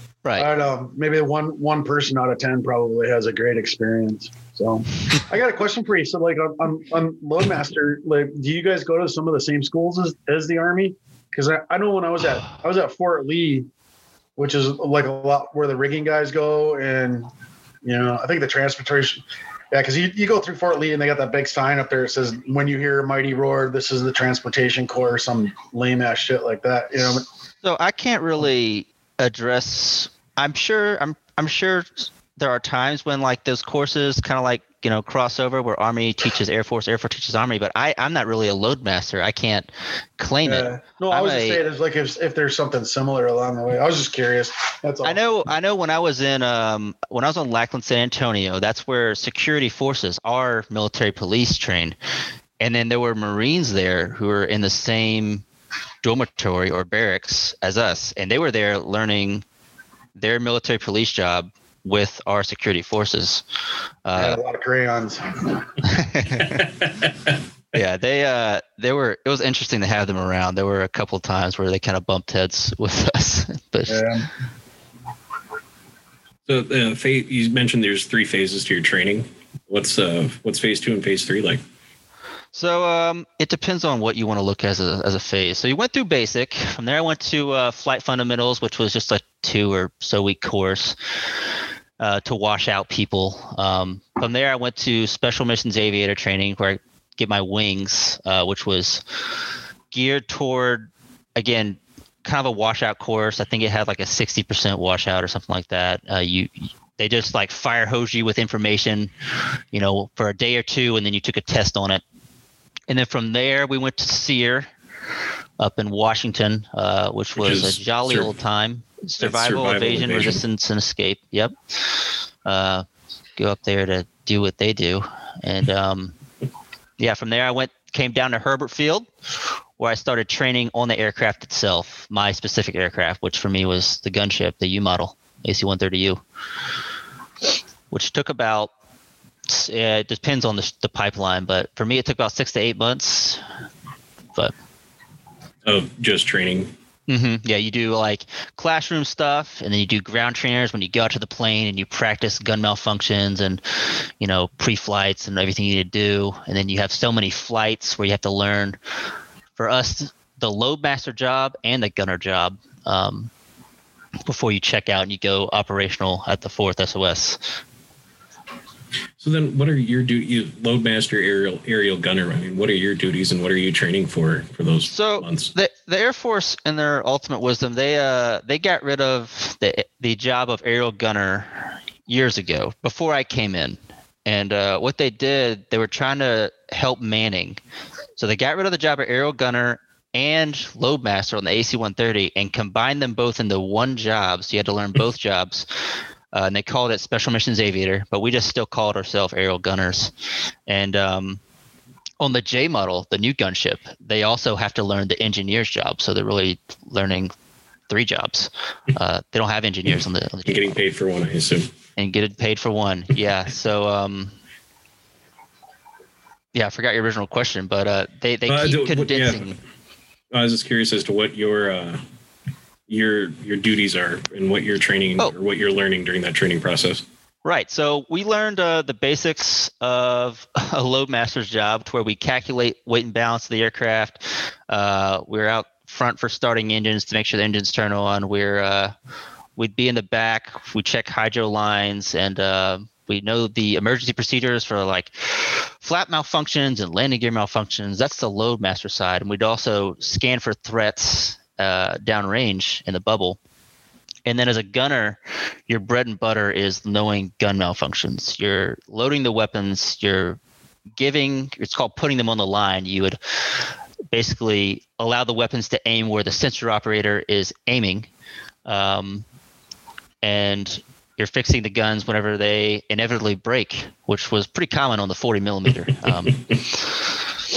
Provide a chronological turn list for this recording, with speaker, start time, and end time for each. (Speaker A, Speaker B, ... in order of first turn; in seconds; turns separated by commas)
Speaker A: 0.3-13.7, Speaker A: 14.4-17.3, Speaker A: 17.8-27.2, Speaker B: 27.6-41.6, Speaker A: 40.4-45.2, Speaker B: 45.0-52.0, Speaker B: 52.6-55.4, Speaker B: 56.0-59.4, Speaker B: 60.1-63.4, Speaker B: 64.0-64.4, Speaker A: 64.1-65.7, Speaker B: 65.8-66.7, Speaker B: 67.7-74.0, Speaker A: 73.9-74.2, Speaker C: 76.5-81.6, Speaker B: 82.5-91.0, Speaker B: 92.0-99.0, Speaker B: 99.9-109.1, Speaker B: 109.7-112.0, Speaker B: 112.9-114.7, Speaker B: 115.6-121.5, Speaker C: 117.4-118.3, Speaker C: 119.2-120.4, Speaker B: 122.4-122.8, Speaker B: 123.4-126.1, Speaker B: 127.0-129.1, Speaker B: 129.8-136.2, Speaker B: 137.9-138.7, Speaker B: 139.5-143.4, Speaker C: 145.6-146.7, Speaker B: 147.1-158.8, Speaker B: 159.6-163.3, Speaker B: 164.2-167.4, Speaker C: 169.2-175.5, Speaker B: 174.9-187.6, Speaker B: 188.2-200.1, Speaker B: 200.7-201.4, Speaker B: 202.2-207.3, Speaker B: 207.9-210.7, Speaker C: 210.4-211.7, Speaker B: 212.0-214.3, Speaker B: 216.5-219.6, Speaker C: 218.5-219.5, Speaker C: 220.3-222.0, Speaker C: 222.9-227.0, Speaker B: 227.4-238.9, Speaker B: 239.6-253.4, Speaker B: 254.2-260.4, Speaker B: 261.0-263.2, Speaker B: 264.1-268.1, Speaker B: 268.6-269.2, Speaker B: 270.2-276.6